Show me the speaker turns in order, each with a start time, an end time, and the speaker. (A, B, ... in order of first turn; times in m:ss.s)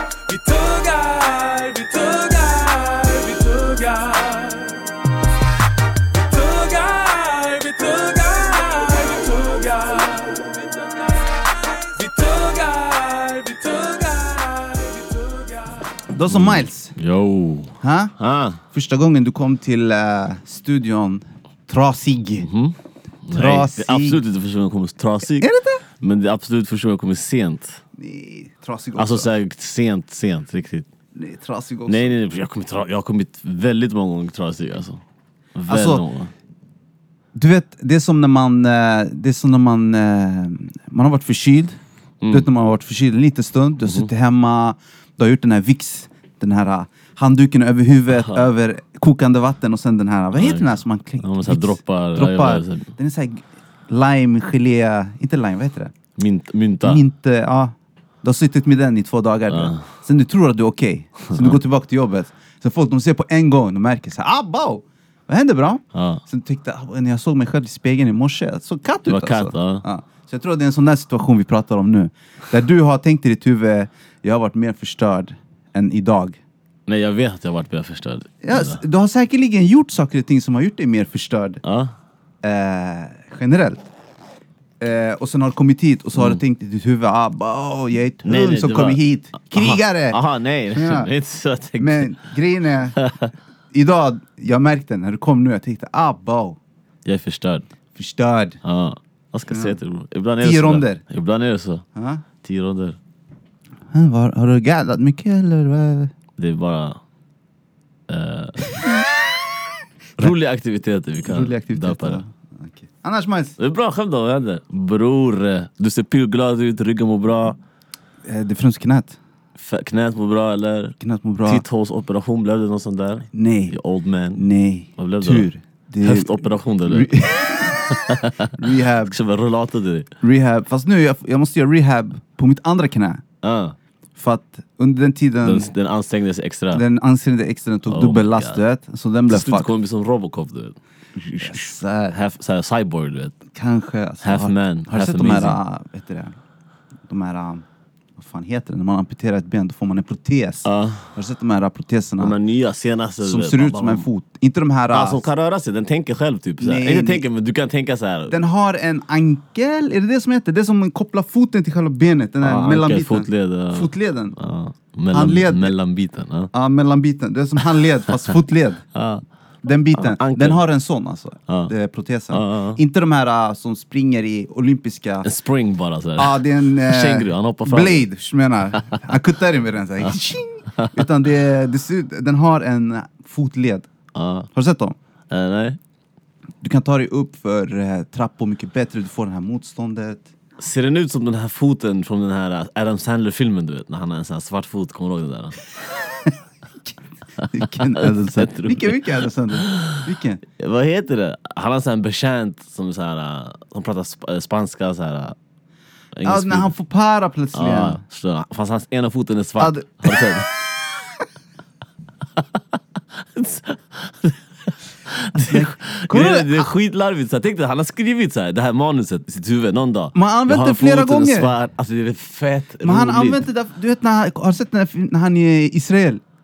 0:00.3-0:04.9 A
0:06.1-0:16.0 A
0:16.1-0:16.9 B
0:16.3-0:18.6 C
0:17.8-0:18.1 B
0:18.7-0:22.5 B
0:22.4-0:22.8 C
0:23.3-0:25.5 C
0:23.3-0:24.2 B
0:25.3-0:25.8 B
0:26.0-0:27.8 C
0:28.0-0:29.3 B
0:29.0-0:30.9 C
0:31.2-0:32.2 B
0:31.9-0:35.0 C
0:35.6-0:36.3 C
0:35.7-0:36.0 B
0:37.4-0:41.8 B
0:42.2-0:42.5 C
0:42.3-0:55.9 B
0:48.2-0:48.5 C
0:50.3-0:52.9 C
0:56.2-0:57.0 C
0:56.8-1:16.4 B
0:59.5-0:59.9 C
1:01.3-1:01.6 C
1:05.9-1:06.2 C
1:09.1-1:09.8 C
1:16.9-1:18.8 C
1:18.4-1:21.6 B
1:21.6-1:21.9 C
1:22.4-1:23.8 B
1:24.8-1:30.2 B
1:28.2-1:32.2 C
1:30.7-1:31.1 B
1:31.8-1:33.0 B
1:33.0-1:33.3 C
1:33.7-1:36.6 B
1:37.0-1:37.7 C
1:38.0-1:38.6 B
1:38.6-1:41.8 C
1:39.5-1:39.8 B
1:40.4-1:41.0 B
1:42.0-1:42.2 B
1:42.4-1:43.0 C
1:43.9-1:46.1 B
1:46.4-1:47.0 C
1:48.1-1:48.7 C
1:48.7-1:49.0 B
1:50.2-1:52.2 C
1:51.2-1:53.6 B
1:53.6-1:57.6 C
1:58.2-1:59.2 B
1:59.6-2:04.4 C
2:01.0-2:01.6 B
2:03.3-2:03.8 B
2:04.4-2:09.2 B
2:05.0-2:05.5 C
2:06.0-2:08.5 C
2:09.1-2:10.1 C
2:10.2-2:13.2 B
2:13.4-2:13.8 C
2:14.2-2:15.7 B
2:15.4-2:16.8 C
2:16.7-2:19.7 B
2:17.9-2:18.6 C
2:19.3-2:20.8 C
2:21.3-2:23.4 C
2:21.4-2:22.2 B
2:23.5-2:26.4 B
2:24.2-2:25.6 C
2:27.1-2:27.6 B
2:28.2-2:32.4 B
2:30.6-2:31.0 C
2:32.2-2:34.0 C
2:33.2-2:35.2 B
2:34.9-2:38.4 C
2:36.6-2:37.2 B
2:38.3-2:44.4 B
2:42.4-2:46.5 C
2:45.1-2:45.7 B
2:46.5-2:48.8 B
2:48.9-2:49.2 C
2:49.6-2:55.3 B
2:50.0-2:50.6 C
2:52.3-2:52.8 C
2:55.2-2:58.1 C
2:56.2-3:03.9 B
3:00.7-3:01.0 C
3:04.1-3:04.5 C
3:04.6-3:05.0 B
3:05.3-3:05.8 C
3:06.6-3:10.3 B
3:10.6-3:15.6 C
3:17.4-3:20.0 C
3:17.5-3:20.4 B
3:20.6-3:25.4 C
3:26.2-3:26.7 C
3:26.2-3:28.0 B
3:27.5-3:30.5 C
3:29.6-3:30.5 B
3:33.2-3:43.4 C
3:35.4-3:36.7 B
3:40.1-3:41.5 B
3:42.8-3:46.2 B